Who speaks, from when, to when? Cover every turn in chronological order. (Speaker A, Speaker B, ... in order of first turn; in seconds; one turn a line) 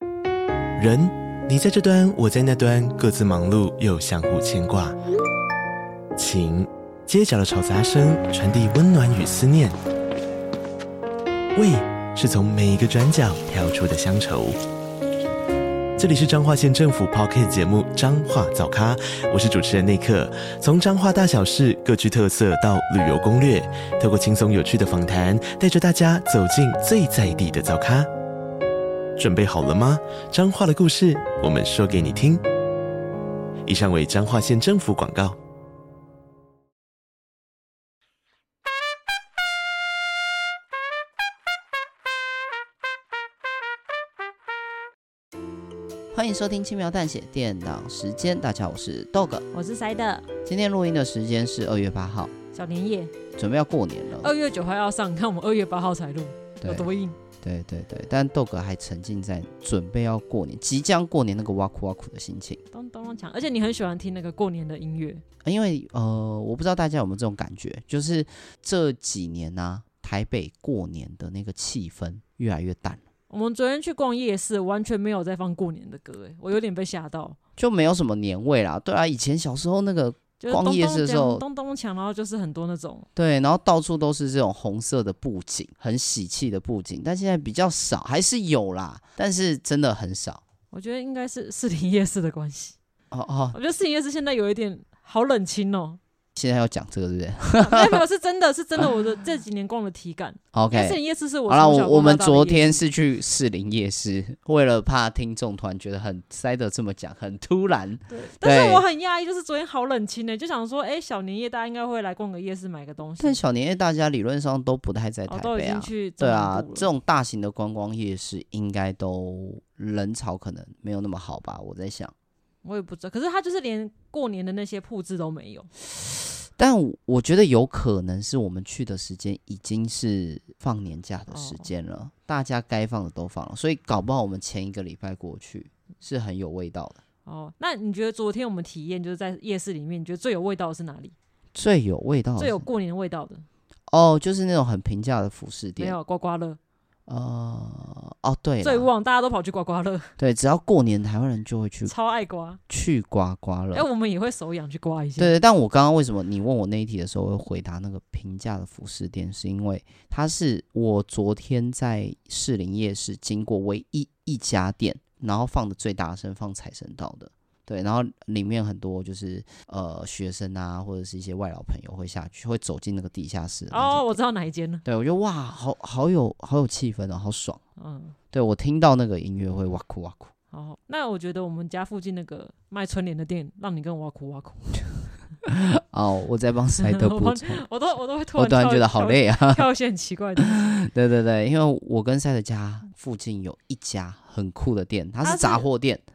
Speaker A: 0.8-4.9
Speaker A: 6.2-9.8
Speaker A: 11.5-14.6
Speaker A: 16.0-28.1
Speaker A: 29.2-32.4
Speaker A: 33.6-35.4
Speaker B: 46.1-49.5
Speaker C: 49.5-50.3
Speaker B: 50.5-52.3
Speaker C: 52.5-53.1
Speaker B: 53.4-54.3
Speaker C: 54.2-57.2
Speaker B: 56.6-56.9
Speaker B: 57.4-62.6
Speaker C: 62.7-65.2
Speaker B: 65.4-73.0
Speaker C: 73.3-77.4
Speaker B: 77.6-81.4
Speaker C: 80.4-83.1
Speaker B: 83.2-90.4
Speaker C: 90.7-92.8
Speaker B: 93.1-93.5
Speaker C: 93.5-96.0
Speaker B: 96.3-98.0
Speaker C: 97.6-102.8
Speaker B: 100.5-108.8
Speaker C: 108.1-113.4
Speaker B: 113.2-122.1
Speaker C: 115.3-116.9
Speaker C: 122.6-125.7
Speaker B: 126.6-137.0
Speaker C: 131.3-131.7
Speaker C: 137.2-141.1
Speaker B: 141.5-142.7
Speaker C: 142.4-143.4
Speaker B: 143.9-145.9
Speaker C: 145.8-146.6
Speaker B: 147.1-148.9
Speaker C: 148.6-150.1
Speaker B: 150.2-151.9
Speaker C: 151.8-152.6
Speaker B: 152.7-153.9
Speaker C: 153.7-155.3
Speaker B: 155.2-174.2
Speaker C: 173.7-174.8
Speaker B: 174.8-177.6
Speaker C: 177.8-178.1
Speaker B: 178.3-180.3
Speaker C: 180.5-184.8
Speaker B: 185.4-187.6
Speaker C: 186.8-190.7
Speaker B: 188.3-189.6
Speaker B: 190.4-196.0
Speaker C: 195.2-195.7